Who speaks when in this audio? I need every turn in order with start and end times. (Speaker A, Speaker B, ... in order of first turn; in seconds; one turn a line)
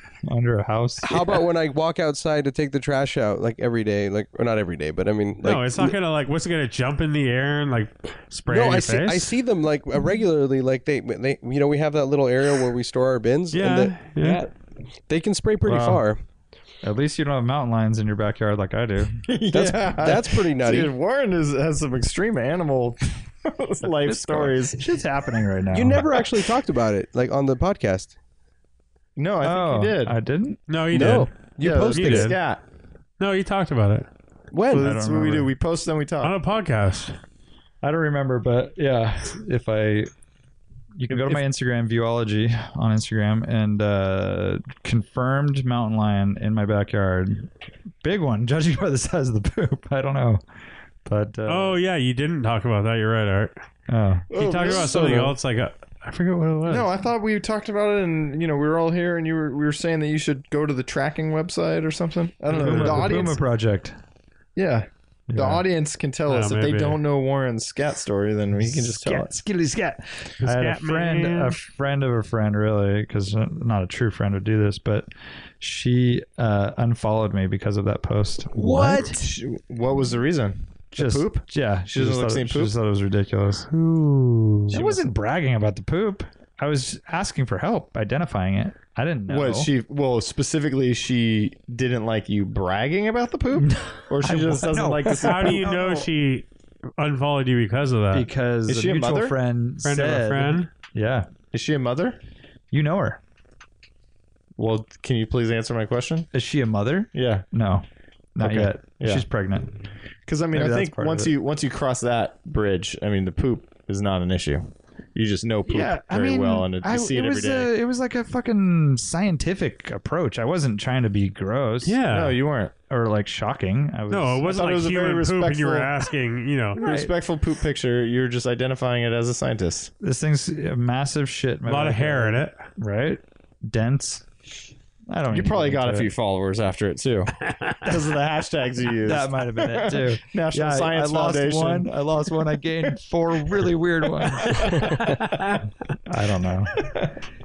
Speaker A: 0.2-1.2
Speaker B: 1.0-5.9
Speaker C: 5.4-9.3
Speaker B: 8.5-14.5
Speaker C: 13.5-14.4
Speaker B: 15.1-16.2
Speaker A: 15.6-16.0
Speaker A: 16.8-19.8
Speaker D: 19.3-24.9
Speaker B: 19.5-20.9
Speaker A: 24.0-26.4
Speaker B: 25.7-28.1
Speaker D: 29.1-30.1
Speaker A: 29.4-30.6
Speaker C: 30.7-31.3
Speaker B: 30.9-32.4
Speaker D: 31.6-32.6
Speaker C: 31.9-32.4
Speaker C: 33.2-34.1
Speaker B: 34.5-34.9
Speaker D: 34.6-36.3
Speaker A: 34.7-35.5
Speaker C: 36.2-37.1
Speaker A: 37.8-40.1
Speaker A: 41.0-47.5
Speaker A: 48.0-50.4
Speaker A: 51.0-51.8
Speaker C: 51.5-53.5
Speaker A: 53.9-54.3
Speaker D: 54.3-55.3
Speaker C: 54.3-56.9
Speaker B: 54.6-55.3
Speaker D: 56.7-63.4
Speaker C: 62.5-63.2
Speaker A: 62.5-63.9
Speaker D: 64.5-69.3
Speaker A: 65.3-65.6
Speaker C: 66.3-67.0
Speaker A: 68.6-75.1
Speaker C: 70.4-71.6
Speaker A: 75.6-79.2
Speaker D: 78.7-81.4
Speaker A: 81.0-83.7
Speaker D: 81.9-82.7
Speaker C: 83.7-84.8
Speaker A: 84.7-89.7
Speaker D: 84.7-85.1
Speaker D: 89.3-95.6
Speaker A: 93.5-96.1
Speaker C: 95.1-98.3
Speaker A: 98.1-101.3
Speaker D: 98.7-99.3
Speaker C: 99.8-100.7
Speaker D: 101.5-102.2
Speaker A: 102.7-103.2
Speaker D: 104.6-106.3
Speaker A: 106.3-109.7
Speaker D: 107.1-107.4
Speaker D: 108.4-109.2
Speaker D: 110.3-117.7
Speaker A: 110.5-111.3
Speaker A: 115.7-122.0
Speaker C: 121.8-122.4
Speaker D: 122.1-122.7
Speaker A: 122.9-124.5
Speaker C: 124.1-126.8
Speaker D: 124.4-126.0
Speaker D: 126.8-129.9
Speaker A: 126.8-127.1
Speaker A: 130.0-134.3
Speaker C: 131.7-132.7
Speaker A: 135.1-136.1
Speaker D: 135.3-141.9
Speaker C: 137.5-137.7
Speaker A: 139.0-145.1
Speaker D: 144.2-145.6
Speaker C: 145.3-145.6
Speaker A: 146.0-146.9
Speaker D: 146.8-147.2